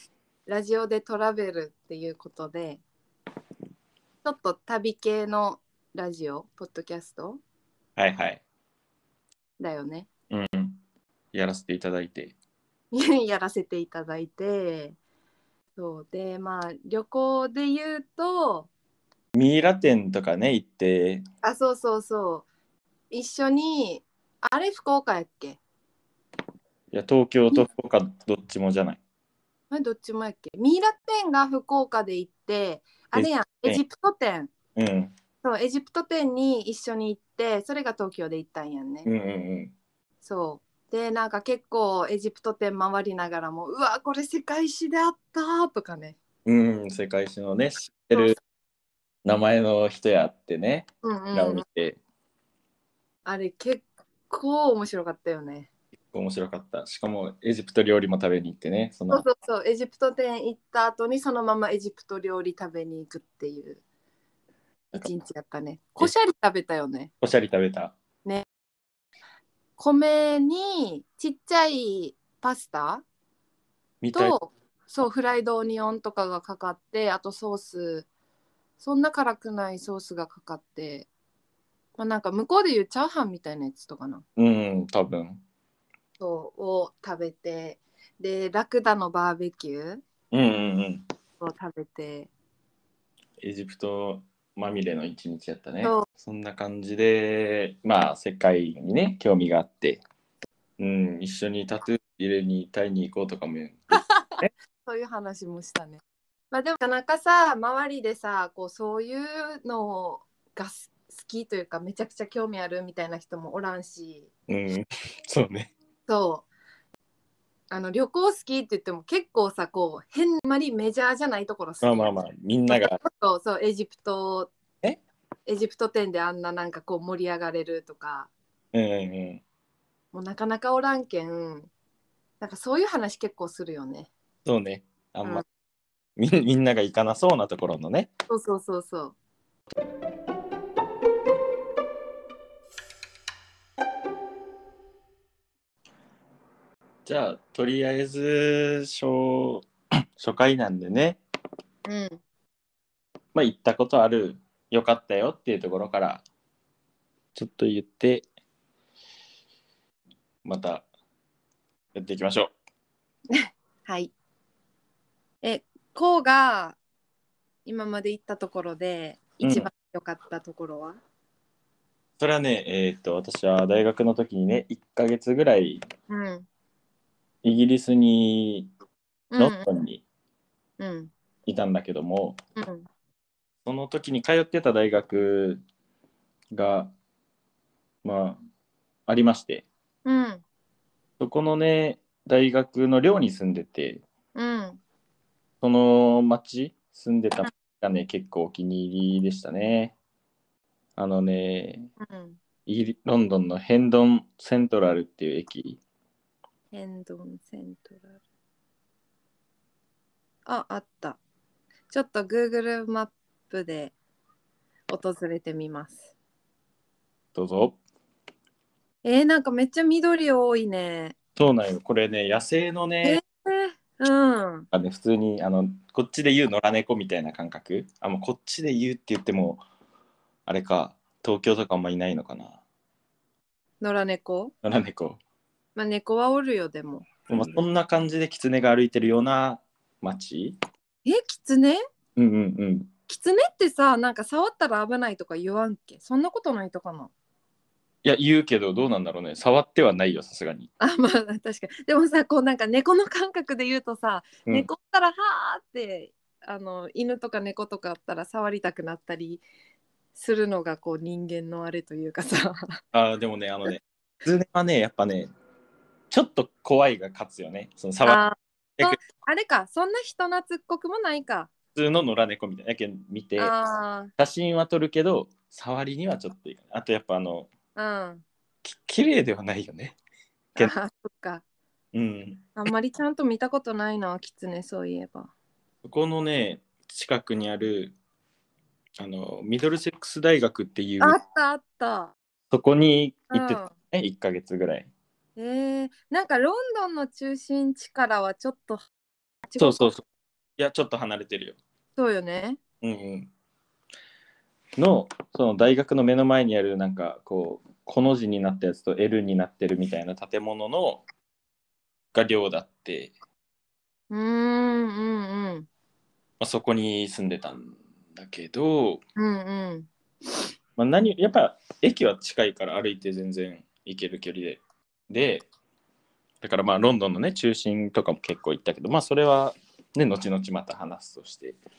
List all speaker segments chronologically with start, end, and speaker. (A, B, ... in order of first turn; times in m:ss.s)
0:00.5-0:02.8 A
0:04.2-0:07.4 A
0:08.0-0:08.4 B
0:09.6-0:10.1 A
0:10.3-0:10.8 B
0:11.3-0:12.4 B
0:12.9-0:15.0 A
0:15.8-0:18.7 A
0:19.4-0:21.2 B
0:21.4-0:22.5 A
0:23.1-0:25.6 A
0:26.9-0:29.0 B
0:29.7-0:34.5 A
0:33.1-0:33.8 B
0:34.8-0:35.1 B
0:35.4-0:39.1 A
0:39.0-0:39.7 B
0:40.2-0:46.2 A
0:46.4-0:48.4 B
0:49.2-0:52.0 B
0:51.0-0:51.6 A
0:53.2-0:55.7 A
0:56.1-0:59.2 B
0:59.1-1:03.8 A
1:05.0-1:07.1 A
1:07.2-1:08.0 B
1:09.8-1:13.0 A
1:14.0-1:14.4 B
1:14.1-1:18.1 A
1:18.8-1:21.1 A
1:22.0-1:24.2 A
1:24.4-1:25.4 B
1:26.2-1:30.0 A
1:30.3-1:31.0 B
1:31.4-1:32.3 A
1:33.4-1:40.0 B
1:40.8-1:44.5 B
1:44.0-1:54.3 A
1:54.5-1:55.7 B
1:56.1-1:56.5 A
1:57.7-2:02.2 A
2:01.8-2:03.0 B
2:02.7-2:04.5 A
2:05.5-2:08.3 A
2:08.7-2:09.4 B
2:10.1-2:11.7 A
2:12.4-2:14.1 A
2:14.4-2:15.4 B
2:16.2-2:18.1 B
2:18.3-2:19.2 A
2:27.0-2:29.7 B
2:30.2-2:31.2 B
2:31.9-2:32.2 A
2:33.3-2:36.2 B
2:37.4-2:38.3 B
2:40.4-2:40.9 B
2:41.9-2:42.5 B
2:43.3-2:44.1 A
2:45.4-2:46.8 A
2:47.6-2:51.0 A
2:49.4-2:49.7 B
2:52.2-2:55.8 B
2:56.1-2:56.5 A
2:57.4-2:58.7 B
2:59.3-2:59.7 A
2:59.4-3:00.0 B
3:00.8-3:01.1 A
3:01.5-3:02.4 B
3:02.6-3:02.9 A
3:03.6-3:05.6 B
3:06.5-3:06.9 B
3:08.0-3:08.4 B
3:09.1-3:09.7 B
3:10.0-3:10.4 A
3:11.2-3:14.0 B
3:14.4-3:14.8 A
3:15.6-3:20.0 B
3:21.0-3:21.9 B
3:22.0-3:22.4 A
3:22.7-3:25.8 B
3:26.7-3:28.2 A
3:30.5-3:31.2 A
3:31.9-3:34.0 A
3:34.9-3:36.1 A
3:37.4-3:37.8 B
3:39.0-3:41.2 A
3:41.4-3:43.2 B
3:43.0-3:44.7 A
3:44.7-3:49.6 B
3:50.5-3:52.6 B
3:53.8-3:54.5 A
3:54.6-3:55.2 B
3:55.8-3:57.6 A
3:57.3-4:00.6 B
4:01.0-4:01.8 A
4:02.2-4:02.9 B
4:03.1-4:07.1 A
4:08.0-4:10.7 B
4:10.8-4:19.4 A
4:20.2-4:22.8 A
4:22.9-4:25.3 B
4:26.1-4:28.2 B
4:28.0-4:31.5 A
4:31.8-4:33.5 B
4:33.4-4:34.1 A
4:34.2-4:37.5 B
4:37.8-4:38.2 A
4:38.6-4:40.0 B
4:40.6-4:41.4 A
4:41.9-4:42.5 B
4:42.6-4:45.3 A
4:45.8-4:48.0 B
4:49.0-4:51.2 B
4:51.0-4:52.1 A
4:52.5-4:54.9 B
4:53.3-4:53.7 A
4:55.4-4:58.9 A
4:59.5-4:59.9 A
4:59.6-5:00.0 B
5:00.6-5:01.6 B
5:02.0-5:02.6 A
5:02.8-5:03.3 B
5:04.8-5:11.0 B
5:12.1-5:13.1 B
5:14.1-5:15.7 A
5:16.4-5:19.0 B
5:19.2-5:19.9 A
5:20.8-5:25.5 B
5:26.4-5:31.6 B